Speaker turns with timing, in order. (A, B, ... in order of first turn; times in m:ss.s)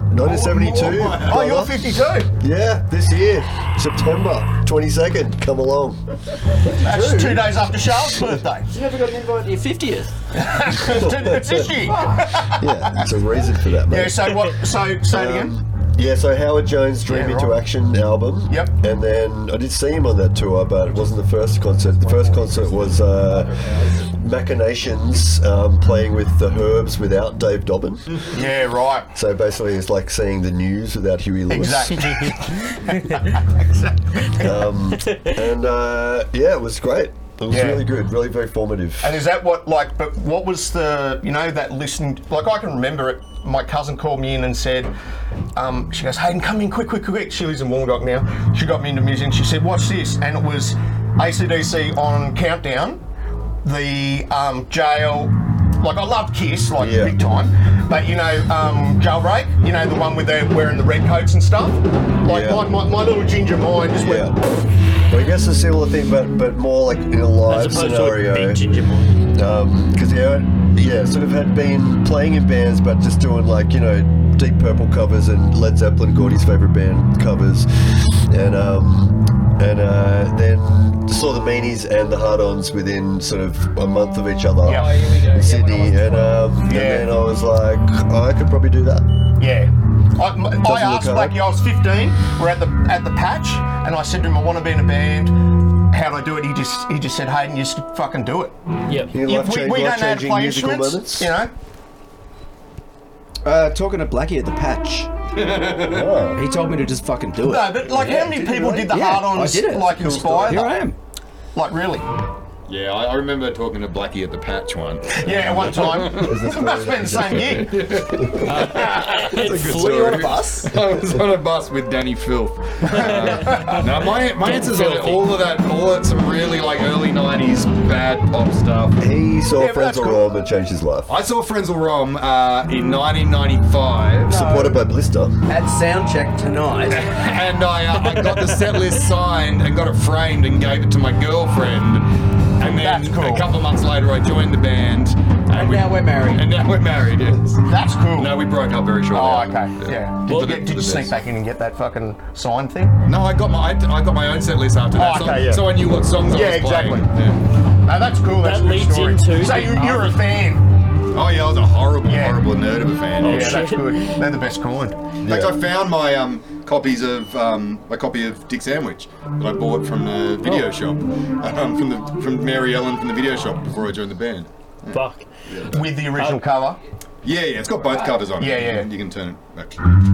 0:00.1-0:08.4 A
0:00.2-0:02.3 B
0:06.6-0:08.7 B
0:08.7-0:10.1 C
0:10.4-0:12.8 B
0:10.8-0:11.7 A
0:12.4-0:14.6 A
0:13.9-0:15.6 B
0:15.1-0:28.2 A
0:17.1-0:17.6 B
0:22.1-0:22.5 B
0:23.0-0:23.7 D
0:28.3-0:29.1 B
0:29.1-0:32.4 A
0:31.5-0:34.3 B
0:34.3-0:39.2 A
0:34.4-0:35.4 E
0:37.5-0:37.9 B
0:39.0-0:44.9 B
0:45.6-0:53.1 B
0:53.6-1:04.4 B
0:56.8-0:57.2 A
1:02.3-1:02.7 A
1:03.9-1:04.4 A
1:05.1-1:29.2 A
1:07.5-1:09.1 E
1:24.6-1:25.0 B
1:24.7-1:26.6 C
1:26.6-1:27.1 B
1:29.4-1:35.4 B
1:30.6-1:31.4 A
1:35.9-1:38.6 B
1:38.9-1:39.1 E
1:39.1-1:41.3 A
1:39.1-1:41.5 B
1:43.4-1:51.0 C
1:45.8-1:46.4 A
1:47.4-1:50.8 B
1:49.9-1:50.8 A
1:51.6-1:52.1 B
1:52.7-1:56.3 D
1:55.1-1:57.8 B
1:56.1-1:58.5 A
1:57.6-2:09.0 D
1:58.5-2:00.4 E
1:59.1-2:00.7 C
2:02.9-2:03.8 E
2:04.4-2:05.3 E
2:09.0-2:11.1 A
2:09.6-2:10.3 B
2:11.1-2:14.4 D
2:14.3-2:14.8 C
2:14.3-2:15.4 A
2:15.5-2:17.2 C
2:16.9-2:22.1 D
2:18.2-2:18.8 E
2:22.6-2:31.1 D
2:22.6-2:23.5 B
2:25.5-2:26.5 C
2:27.7-2:28.4 B
2:29.1-2:33.0 B
2:33.1-2:37.4 D
2:35.0-2:35.7 B
2:36.3-2:37.1 B
2:37.9-2:40.7 B
2:38.4-2:40.2 E
2:41.1-2:43.7 D
2:42.1-2:42.5 B
2:43.2-2:44.2 E
2:43.2-2:45.0 B
2:45.2-2:55.9 D
2:45.2-2:45.6 A
2:54.9-2:55.3 E
2:55.7-2:56.8 B
2:56.2-2:56.4 E
2:57.2-3:00.0 D
2:58.4-2:58.9 B